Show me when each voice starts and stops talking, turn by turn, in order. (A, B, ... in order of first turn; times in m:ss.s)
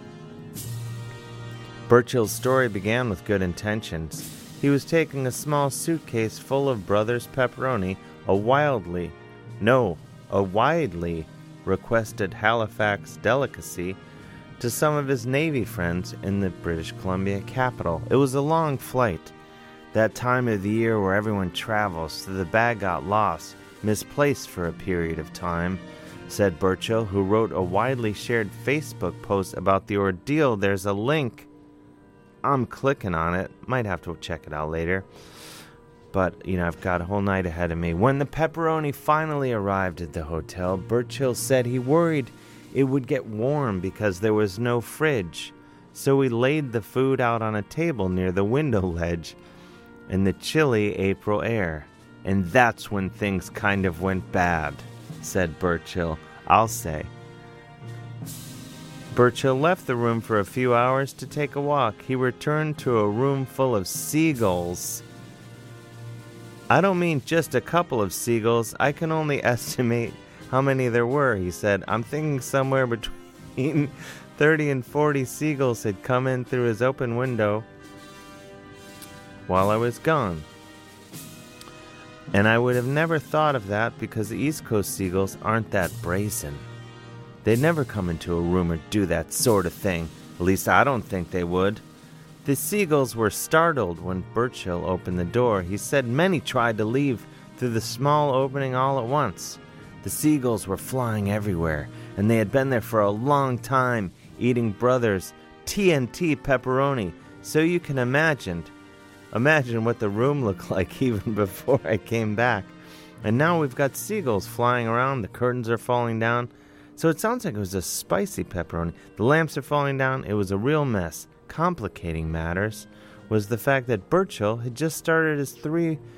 0:01.9-0:14.0 A
0:14.6-0:19.3 A
0:19.9-0:31.5 A
0:32.4-0:35.1 A
0:36.1-0:49.4 A
0:50.1-0:57.1 A
0:59.1-1:05.0 A
1:06.7-1:17.6 A
1:19.5-1:20.4 A
1:22.3-1:26.6 A
1:27.4-1:31.8 A
1:32.4-1:48.7 A
1:49.3-2:06.0 A